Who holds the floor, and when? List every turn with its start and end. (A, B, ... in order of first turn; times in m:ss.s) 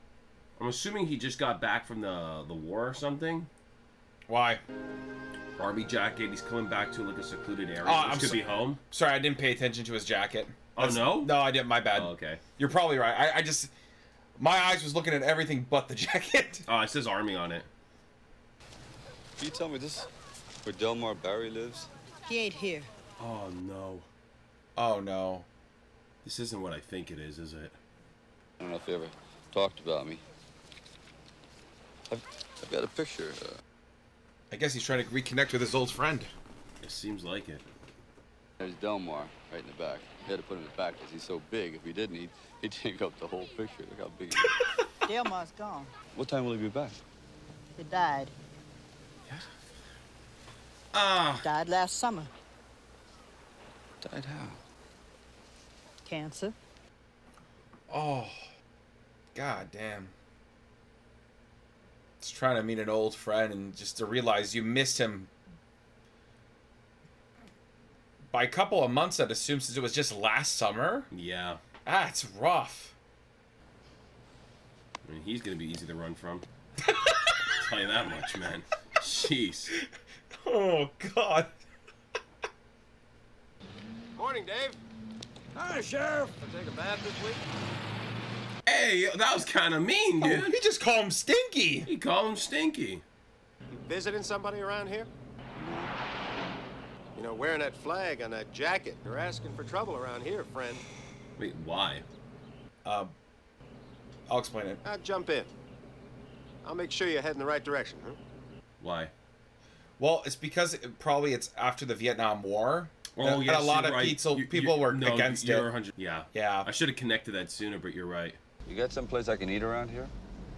0:00.6-0:03.5 A
0:04.3-0:04.6 B
0:05.6-0:08.8 A
0:07.8-0:13.7 B
0:10.8-0:11.4 A
0:11.9-0:12.4 A
0:14.4-0:16.6 B
0:16.7-0:17.7 A
0:19.4-0:20.1 C
0:20.6-0:21.9 C
0:22.3-0:22.9 D
0:23.2-0:24.1 A
0:24.8-0:25.5 B
0:26.2-0:27.7 A
0:28.6-0:30.2 C
0:32.1-0:33.6 C
0:34.5-0:36.3 B
0:36.8-0:37.6 A
0:38.6-0:44.5 C
0:45.0-0:45.9 D
0:46.1-0:47.0 C
0:47.8-0:48.3 D
0:50.9-0:51.5 A
0:51.4-0:52.3 D
0:54.0-0:54.6 C
0:56.0-0:56.6 D
0:57.9-0:58.5 B
0:59.3-1:00.1 B
1:02.2-1:05.3 B
1:08.3-1:11.1 B
1:11.1-1:11.6 A
1:11.8-1:12.9 B
1:15.0-1:16.4 A
1:16.9-1:17.5 B
1:17.6-1:19.7 A
1:20.4-1:21.5 B
1:24.2-1:24.8 E
1:25.6-1:27.4 E
1:28.6-1:30.6 A
1:30.2-1:31.9 B
1:31.9-1:33.0 A
1:33.7-1:35.1 E
1:35.6-1:35.9 C
1:37.1-1:40.8 E
1:41.4-1:42.0 A
1:42.8-1:43.1 B
1:44.3-1:44.8 B
1:44.8-1:45.5 E
1:46.6-1:48.2 E
1:48.8-1:49.1 A
1:50.0-1:55.7 B
1:53.1-1:58.4 A
1:56.3-1:56.7 B
1:58.6-2:00.1 C